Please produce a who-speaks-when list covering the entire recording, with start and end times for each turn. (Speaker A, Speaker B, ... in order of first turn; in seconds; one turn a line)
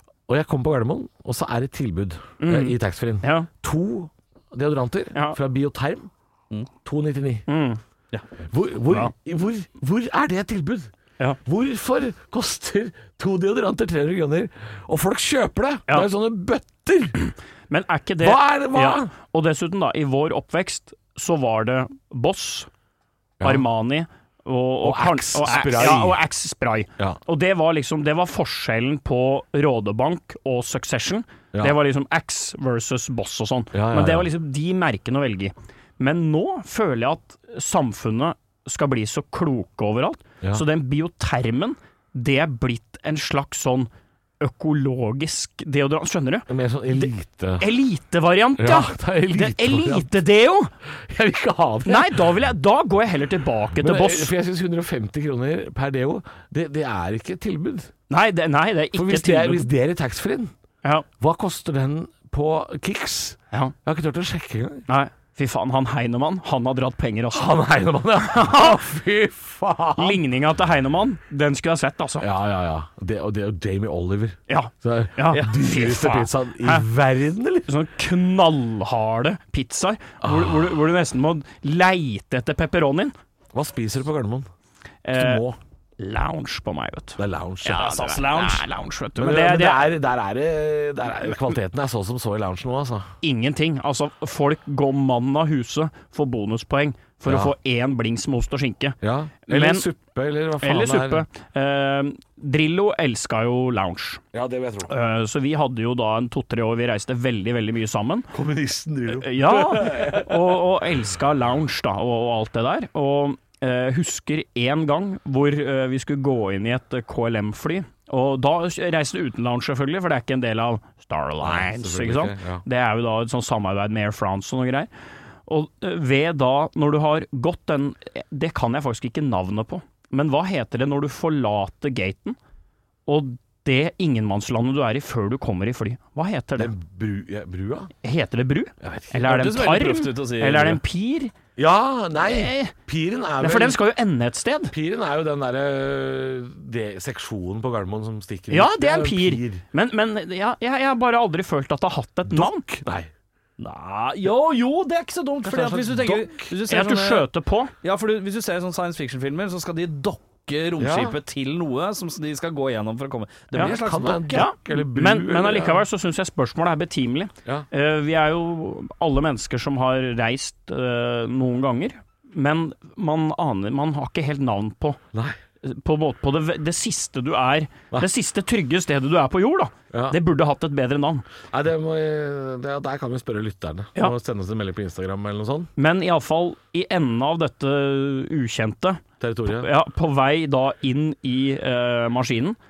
Speaker A: 0.3-6.1
Speaker B: 2.4-3.5
Speaker A: 6.8-7.5
Speaker B: 7.5-7.8
Speaker A: 8.5-10.9
Speaker A: 11.4-17.2
Speaker B: 17.7-22.7
Speaker A: 18.2-19.1
Speaker A: 23.4-23.6
Speaker B: 23.4-43.9
Speaker A: 24.8-26.2
Speaker A: 33.7-34.3
Speaker B: 44.4-50.7
Speaker A: 46.5-47.7
Speaker A: 48.6-50.1
Speaker A: 50.9-52.2
Speaker B: 51.9-54.3
Speaker A: 53.8-57.9
Speaker B: 58.1-59.7
Speaker A: 58.9-60.5
Speaker A: 61.2-64.9
Speaker B: 64.9-67.6
Speaker A: 67.3-70.2
Speaker B: 68.2-68.8
Speaker B: 70.0-72.3
Speaker A: 72.2-77.7
Speaker B: 74.5-76.8
Speaker B: 77.7-83.1
Speaker A: 80.2-80.8
Speaker A: 83.5-84.5
Speaker B: 85.0-85.4
Speaker A: 85.1-85.6
Speaker B: 86.0-89.9
Speaker A: 87.2-87.9
Speaker C: 87.7-88.7
Speaker A: 89.2-93.1
Speaker B: 93.2-99.9
Speaker A: 97.3-97.5
Speaker A: 99.0-101.2
Speaker B: 100.6-104.2
Speaker A: 104.3-104.9
Speaker B: 104.9-108.3
Speaker A: 108.3-110.6
Speaker B: 109.2-124.9
Speaker A: 121.4-122.6
Speaker B: 125.5-132.4
Speaker B: 133.1-136.7
Speaker A: 136.6-137.9
Speaker B: 138.0-141.3
Speaker A: 138.8-139.2
Speaker C: 139.2-140.8
Speaker A: 141.6-143.8
Speaker B: 142.2-142.7
Speaker B: 143.4-144.7
Speaker A: 144.7-149.6
Speaker B: 148.5-152.6
Speaker A: 152.3-153.1
Speaker C: 153.6-157.3
Speaker A: 155.4-156.5
Speaker B: 156.7-157.7
Speaker C: 157.8-164.5
Speaker A: 160.8-161.2
Speaker A: 163.6-165.8
Speaker B: 164.3-175.0
Speaker B: 175.6-181.3
Speaker A: 179.9-180.2
Speaker A: 181.5-185.7
Speaker B: 185.8-192.6
Speaker A: 189.2-189.7